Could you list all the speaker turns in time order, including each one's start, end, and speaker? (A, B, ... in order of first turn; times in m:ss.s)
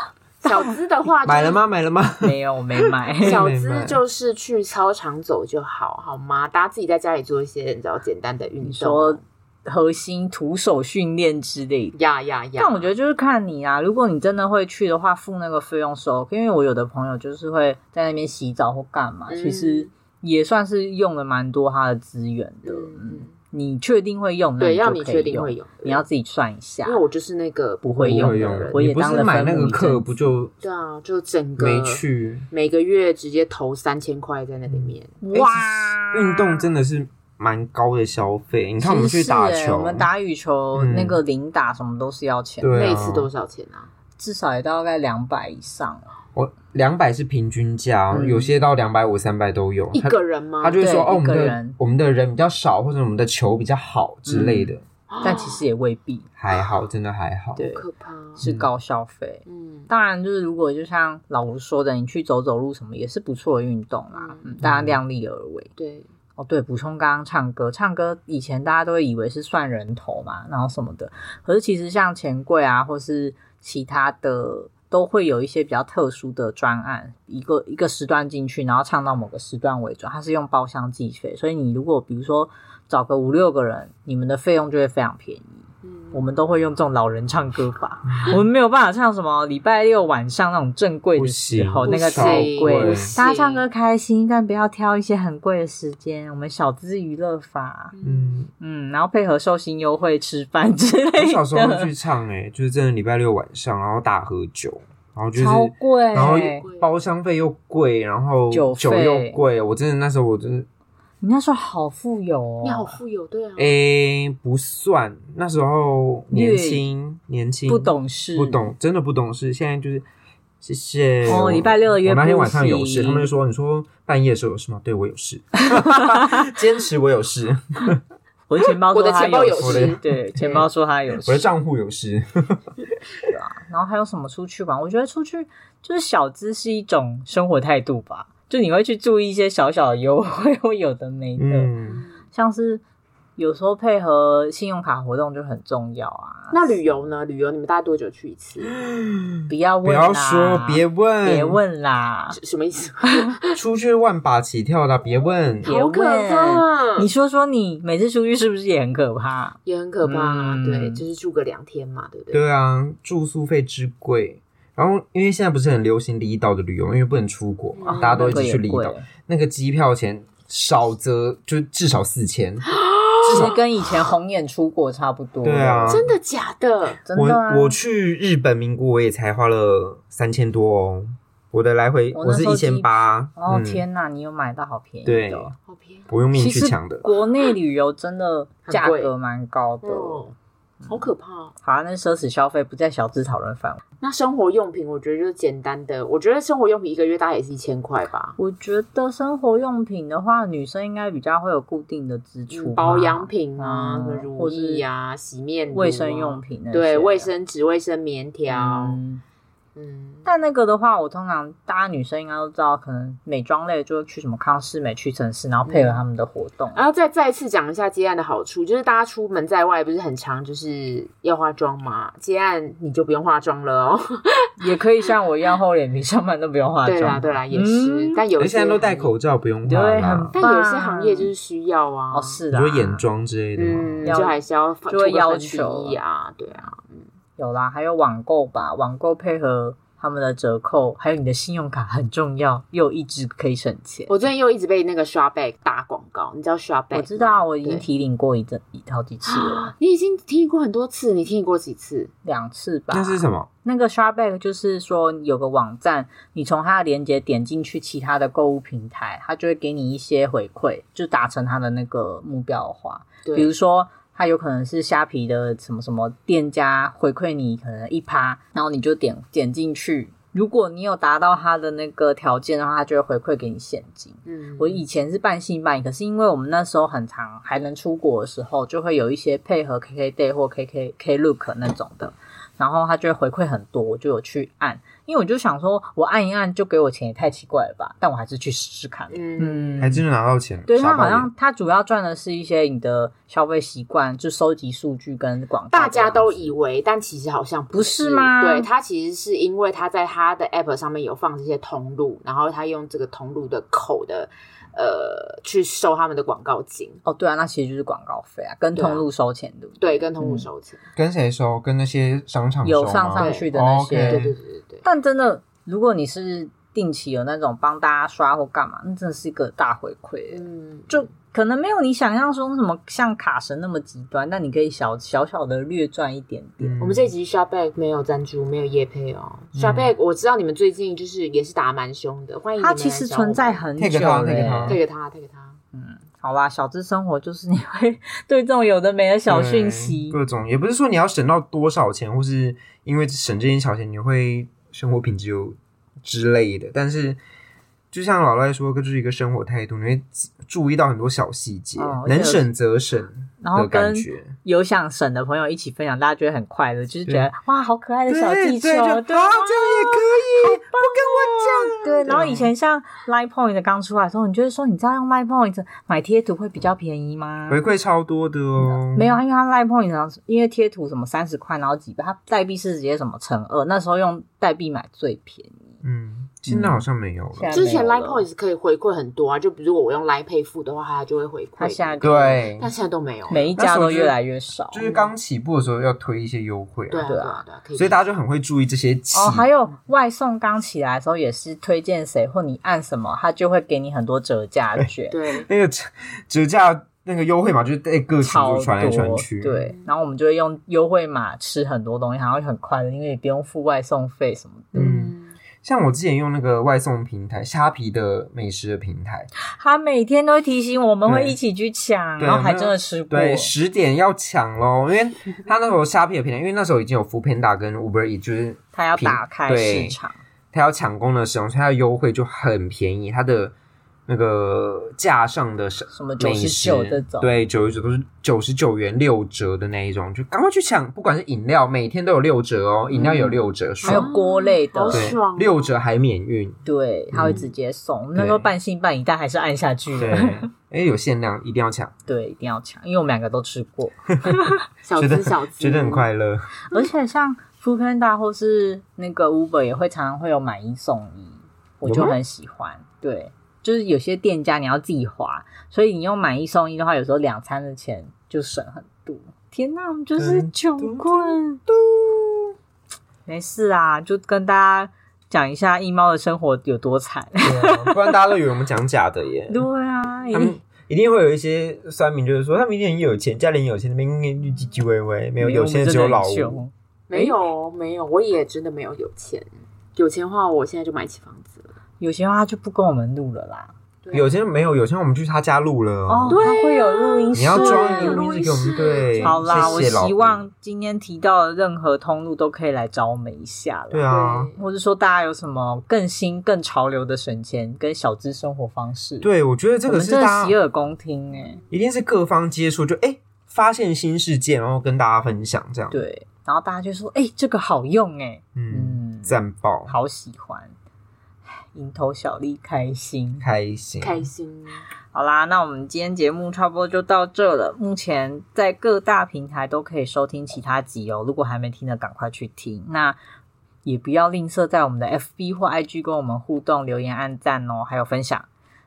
0:00.4-0:01.6 A
0:01.2-0:02.3 B
0:02.2-0:03.5 C
0:03.1-0:04.0 B
0:03.2-0:09.2 A
0:08.6-0:12.0 C
0:11.9-0:12.9 A
0:12.6-0:27.0 C
0:19.3-0:19.9 A
0:22.6-0:23.3 A
0:24.6-0:26.0 A
0:26.8-0:28.8 A
0:27.8-0:30.2 C
0:28.0-0:30.5 B
0:30.6-0:35.2 A
0:31.6-0:32.5 B
0:34.7-0:40.1 B
0:35.2-0:36.6 C
0:38.8-0:43.0 C
0:40.7-0:41.2 B
0:42.6-0:43.3 B
0:42.7-0:43.9 A
0:44.2-0:46.1 C
0:46.3-0:54.8 B
0:48.1-0:48.5 C
0:49.9-0:50.8 A
0:50.8-0:51.8 C
0:54.3-0:56.3 C
0:55.1-0:55.6 A
0:56.4-0:57.6 B
0:57.6-0:57.8 C
0:57.6-0:58.4 A
0:58.4-0:58.7 B
0:58.4-1:05.7 C
0:59.4-0:59.9 A
1:04.1-1:04.6 A
1:04.6-1:05.0 B
1:05.8-1:06.1 A
1:06.4-1:37.9 C
1:25.8-1:26.2 A
1:28.1-1:28.4 B
1:31.2-1:33.1 B
1:31.8-1:33.6 A
1:37.9-1:38.4 A
1:38.0-1:38.5 B
1:38.6-1:41.9 C
1:41.2-1:50.7 B
1:45.3-1:46.7 C
1:46.2-1:46.9 A
1:48.5-1:49.4 C
1:51.2-1:53.0 C
1:52.6-1:53.7 A
1:53.6-2:00.0 B
1:56.3-1:56.8 C
1:57.7-1:58.6 C
2:00.6-2:08.0 B
2:01.2-2:03.3 C
2:05.7-2:06.4 C
2:08.5-2:11.5 C
2:08.9-2:10.0 A
2:09.6-2:10.6 B
2:11.2-2:12.7 B
2:13.3-2:21.7 C
2:21.4-2:22.0 B
2:21.8-2:22.1 A
2:22.3-2:22.8 C
2:23.4-2:26.7 C
2:26.5-2:28.8 A
2:28.7-2:31.6 B
2:29.5-2:32.4 C
2:32.3-2:33.6 A
2:33.0-2:33.3 C
2:33.5-2:35.7 B
2:35.6-2:37.1 A
2:35.6-2:41.0 C
2:39.6-2:42.5 A
2:42.3-2:53.6 B
2:47.8-2:48.4 A
2:47.9-2:49.1 C
2:52.7-2:53.6 A
2:53.3-2:56.0 C
2:55.4-2:56.0 B
2:55.9-2:57.0 A
2:57.0-2:57.8 C
2:57.1-3:03.8 B
3:02.1-3:05.5 C
3:05.0-3:05.5 B
3:05.6-3:06.1 A
3:06.1-3:07.0 B
3:06.3-3:10.3 C
3:08.7-3:09.1 A
3:09.8-3:10.3 A
3:10.9-3:11.5 A
3:11.6-3:13.8 C
3:14.0-3:18.4 A
3:18.4-3:24.8 C
3:22.5-3:29.0 A
3:25.7-3:27.3 C
3:28.5-3:29.2 C
3:29.8-3:30.3 A
3:30.2-3:36.8 C
3:35.6-3:36.0 A
3:36.7-3:44.5 A
3:44.6-3:48.2 C
3:46.8-3:49.1 A
3:48.4-3:50.4 B
3:49.6-3:51.3 C
3:50.3-3:52.4 A
3:52.1-3:53.0 C
3:52.5-3:54.2 B
3:53.6-3:57.0 A
3:54.0-3:56.0 C
3:57.4-4:04.1 C
4:04.1-4:07.8 A
4:06.9-4:09.7 C
4:09.2-4:12.1 A
4:12.2-4:50.0 C
4:12.9-4:13.5 B
4:23.2-4:23.5 A
4:34.2-4:34.8 A
4:49.1-4:49.9 A
4:49.8-4:51.3 B
4:50.7-4:56.5 C
4:55.7-5:07.0 A
4:57.7-4:58.7 C
5:07.0-5:10.5 C
5:08.8-5:09.0 A
5:09.8-5:10.8 A
5:11.0-5:14.4 B
5:12.6-5:14.3 C
5:13.2-5:14.8 A
5:14.8-5:26.8 C
5:20.3-5:21.1 A
5:26.6-5:27.1 B
5:26.8-5:33.6 A
5:29.5-5:29.9 B
5:32.6-5:34.8 C
5:33.8-5:34.8 B
5:34.6-5:35.6 A
5:35.7-5:40.2 C
5:39.3-5:47.2 B
5:47.9-5:54.3 B
5:51.8-5:52.5 C
5:53.4-6:07.6 C
5:58.1-6:02.5 B
6:07.5-6:09.2 B
6:08.6-6:15.7 C
6:15.8-6:17.6 B
6:16.5-6:16.8 C
6:17.3-6:18.2 C
6:17.5-6:23.5 A
6:21.6-6:22.4 C
6:22.0-6:22.7 B
6:23.3-6:24.8 C
6:23.5-6:24.2 B
6:24.7-6:27.0 B
6:24.8-6:25.1 A
6:26.9-6:28.0 A
6:27.0-6:27.4 C
6:27.7-6:29.5 B
6:29.1-6:35.2 C
6:35.1-6:35.5 A
6:35.4-6:39.6 B
6:38.2-6:44.9 C
6:44.7-6:45.4 A
6:44.8-6:49.3 B
6:49.6-6:53.5 C
6:51.0-6:51.4 B
6:52.2-7:00.0 B
6:58.7-7:00.2 C
7:00.5-7:03.5 B
7:04.1-7:14.1 B
7:05.9-7:07.4 C
7:12.9-7:15.2 C
7:13.8-7:15.8 A
7:14.9-7:16.6 B
7:16.6-7:20.5 C
7:17.1-7:17.4 B
7:18.1-7:18.5 B
7:19.9-7:21.9 B
7:22.1-7:24.6 C
7:24.2-7:26.5 B
7:24.8-7:26.1 A
7:26.7-7:41.6 C
7:31.8-7:32.2 B
7:40.2-7:42.5 B
7:43.2-7:48.3 C
7:47.4-7:49.6 B
7:49.5-7:50.6 C
7:50.3-7:56.6 B
7:55.4-7:57.4 C
7:57.1-8:01.7 A
8:02.0-8:03.7 C
8:04.0-8:04.4 A
8:04.1-8:06.5 B
8:06.1-8:08.2 C
8:06.3-8:10.0 A
8:07.3-8:10.4 B
8:09.2-8:19.3 C
8:13.9-8:14.5 B
8:14.1-8:14.6 A
8:19.2-8:20.6 B
8:19.9-8:21.6 C
8:21.7-8:26.0 B
8:25.9-8:30.7 C
8:28.5-8:29.9 B
8:31.7-8:33.4 C
8:33.4-8:34.3 B
8:34.0-8:34.8 A
8:35.1-8:43.2 C
8:43.8-8:48.5 C